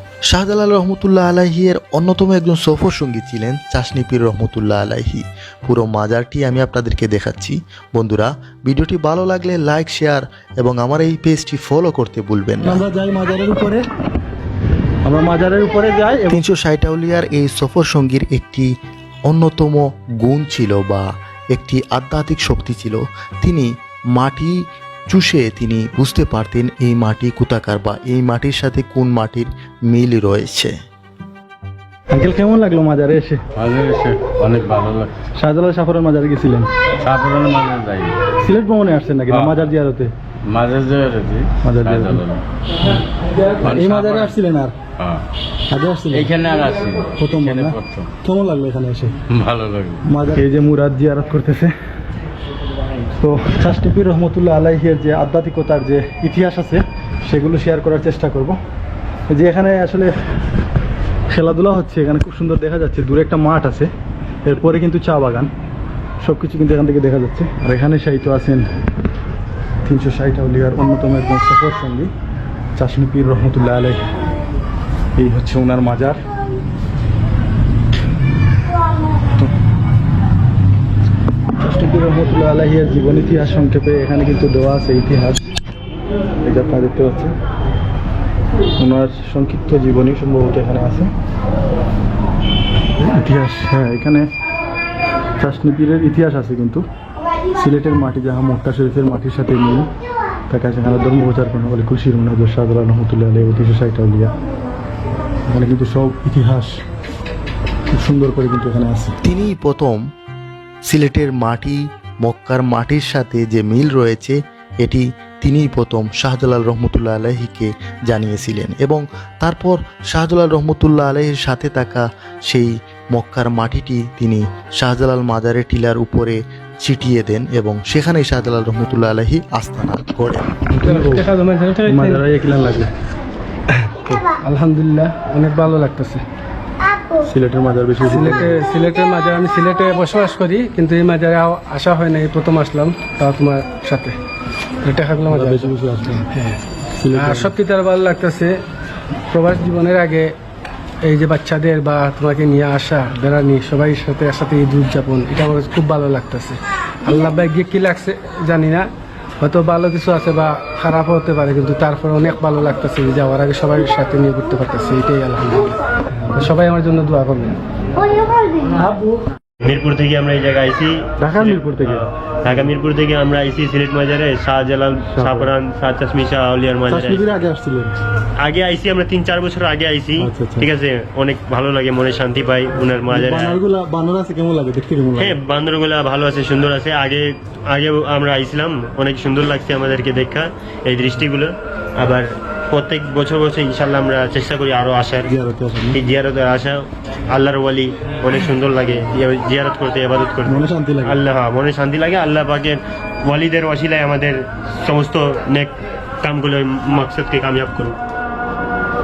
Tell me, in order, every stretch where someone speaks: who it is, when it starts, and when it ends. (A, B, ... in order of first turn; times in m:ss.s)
0:00.3-0:12.8 A
0:12.6-0:13.8 B
0:15.0-0:16.4 B
0:16.3-0:18.7 A
0:19.3-0:30.7 A
0:32.1-0:33.4 B
0:33.6-0:35.1 C
0:35.4-0:36.7 B
0:37.0-0:38.2 C
0:38.4-0:40.1 B
0:39.3-0:39.7 C
0:40.5-0:42.4 C
0:41.6-0:42.3 B
0:43.6-0:44.4 C
0:43.6-0:44.7 B
0:45.7-0:46.3 B
0:46.1-0:48.1 C
0:47.2-0:49.2 B
0:49.3-0:50.0 C
0:50.1-0:51.7 B
0:53.2-0:58.6 B
0:59.3-1:00.1 B
1:01.3-1:03.9 B
1:04.4-1:05.5 B
1:06.2-1:08.7 B
1:09.8-1:12.1 B
1:12.8-1:14.0 B
1:15.2-1:16.2 B
1:21.6-1:25.4 B
1:26.4-1:27.3 B
1:28.8-1:31.1 B
1:33.0-1:34.3 B
1:35.4-1:36.8 B
1:37.6-1:39.9 B
1:40.5-1:44.3 B
1:45.5-1:46.8 B
1:47.9-1:49.2 B
1:49.2-1:50.0 A
1:50.9-2:10.5 A
2:10.7-2:11.3 B
2:10.8-2:12.2 D
2:11.8-2:12.9 B
2:14.4-2:16.2 D
2:17.2-2:18.6 B
2:18.0-2:24.2 D
2:24.8-2:25.7 D
2:25.3-2:26.3 B
2:26.3-2:26.6 D
2:27.0-2:27.5 B
2:27.1-2:28.6 D
2:29.3-2:30.3 D
2:31.0-2:38.9 D
2:39.4-2:45.8 D
2:46.3-2:47.6 D
2:49.6-2:57.2 E
2:51.2-2:52.7 B
2:55.1-2:55.5 B
2:56.9-2:58.0 B
2:58.4-3:03.6 E
3:00.2-3:00.7 B
3:03.1-3:05.4 B
3:05.2-3:15.3 E
3:15.3-3:16.0 B
3:15.9-3:28.0 E
3:20.5-3:21.2 B